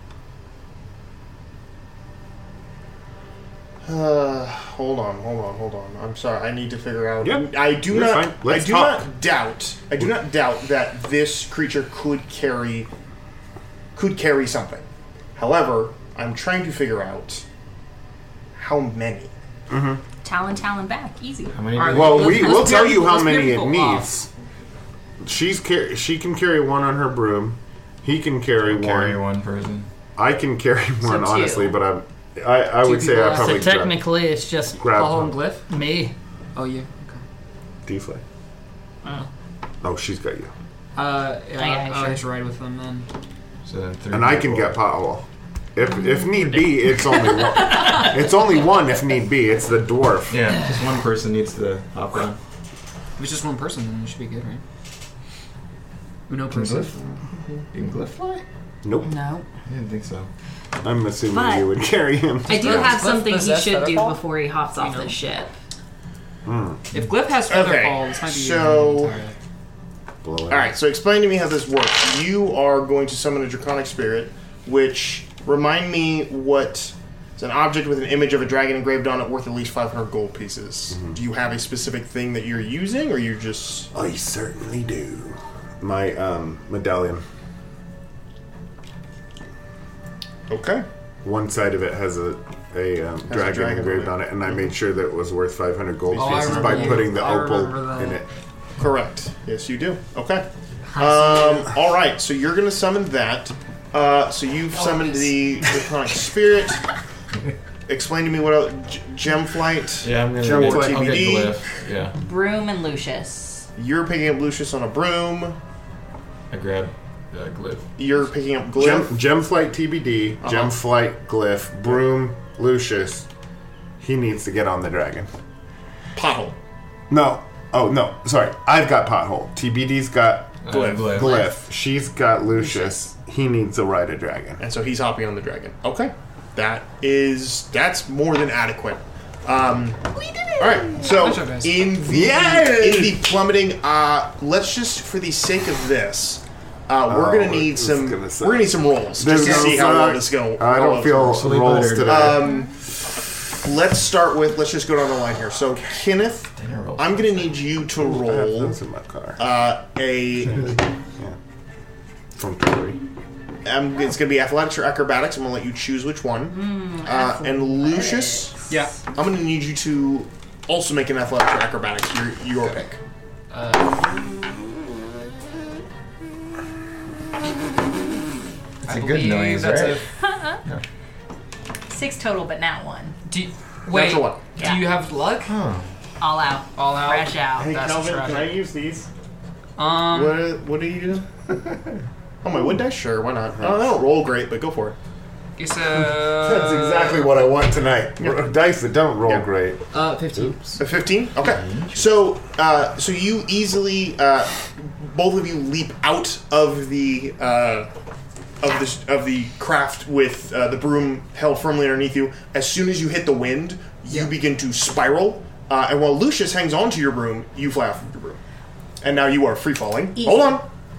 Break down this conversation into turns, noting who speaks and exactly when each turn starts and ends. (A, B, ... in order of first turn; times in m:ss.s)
0:03.8-0:12.9 A
0:07.2-0:09.1 B
0:14.0-0:14.8 A
0:15.4-0:17.4 A
0:18.6-0:19.3 A
0:19.7-0:20.0 B
0:20.2-0:21.6 C
0:21.5-0:22.6 D
0:21.8-0:24.1 E
0:21.9-0:24.3 B
0:22.4-0:22.8 C
0:25.2-0:29.2 B
0:28.6-0:29.9 D
0:30.2-0:34.1 B
0:31.0-0:31.8 C
0:32.8-0:33.6 E
0:33.0-0:35.1 F
0:34.8-0:35.3 B
0:34.9-0:35.6 E
0:35.7-0:36.1 F
0:36.6-0:37.2 E
0:37.9-0:38.2 B
0:39.8-0:40.5 B
0:41.0-0:43.1 E
0:41.6-0:42.2 C
0:43.6-0:44.8 D
0:44.1-0:50.4 B
0:50.3-0:52.4 D
0:53.2-0:54.6 E
0:56.3-0:57.0 E
0:56.5-0:56.9 D
0:57.7-0:58.4 D
0:58.8-0:59.1 B
0:59.0-0:59.5 C
0:59.6-1:00.3 D
1:00.8-1:03.0 B
1:01.3-1:01.7 C
1:02.5-1:05.5 C
1:02.5-1:04.2 E
1:06.4-1:06.8 B
1:06.9-1:09.4 E
1:07.5-1:09.2 A
1:10.2-1:10.7 B
1:10.5-1:23.9 A
1:23.9-1:27.2 B
1:30.5-1:30.9 A
1:31.2-1:38.3 B
1:33.3-1:34.2 A
1:36.1-1:37.1 A
1:36.1-1:38.2 E
1:38.8-1:46.8 A
1:40.9-1:41.7 E
1:44.8-1:45.4 C
1:47.9-1:51.6 A
1:50.0-1:52.2 D
1:50.4-1:51.4 B
1:52.2-1:53.7 C
1:53.8-1:55.6 A
1:56.5-1:57.9 D
1:58.0-1:59.2 A
1:58.8-2:03.3 B
2:00.4-2:00.8 A
2:04.0-2:05.3 B
2:06.2-2:06.6 A
2:07.1-2:14.6 B
2:10.6-2:11.4 D
2:10.7-2:11.2 A
2:14.6-2:20.0 A
2:20.4-2:20.9 C
2:20.6-2:32.7 A
2:21.0-2:21.9 E
2:22.0-2:23.2 B
2:27.1-2:32.6 B
2:31.3-2:32.4 D
2:33.6-2:38.8 A
2:36.6-2:37.7 D
2:38.0-2:39.5 B
2:39.4-2:40.8 A
2:42.4-2:43.0 B
2:43.6-2:48.6 A
2:46.5-2:48.5 C
2:49.1-2:53.0 A
2:53.5-2:54.0 E
2:58.8-3:00.0 D
2:58.8-3:00.0 E
3:00.2-3:00.6 C
3:01.9-3:03.2 C
3:03.3-3:05.5 E
3:03.9-3:04.4 A
3:04.6-3:04.8 C
3:05.4-3:05.9 D
3:06.2-3:07.9 C
3:06.8-3:08.5 E
3:07.6-3:09.1 B
3:09.8-3:10.4 E
3:10.1-3:11.3 A
3:12.4-3:15.0 A
3:13.6-3:13.8 B
3:15.6-3:17.3 E
3:16.0-3:19.8 B
3:18.2-3:18.5 A
3:19.9-3:20.8 E
3:20.8-3:27.9 A
3:21.6-3:22.0 D
3:28.6-3:38.4 A
3:39.0-3:40.7 A
3:40.2-3:40.6 C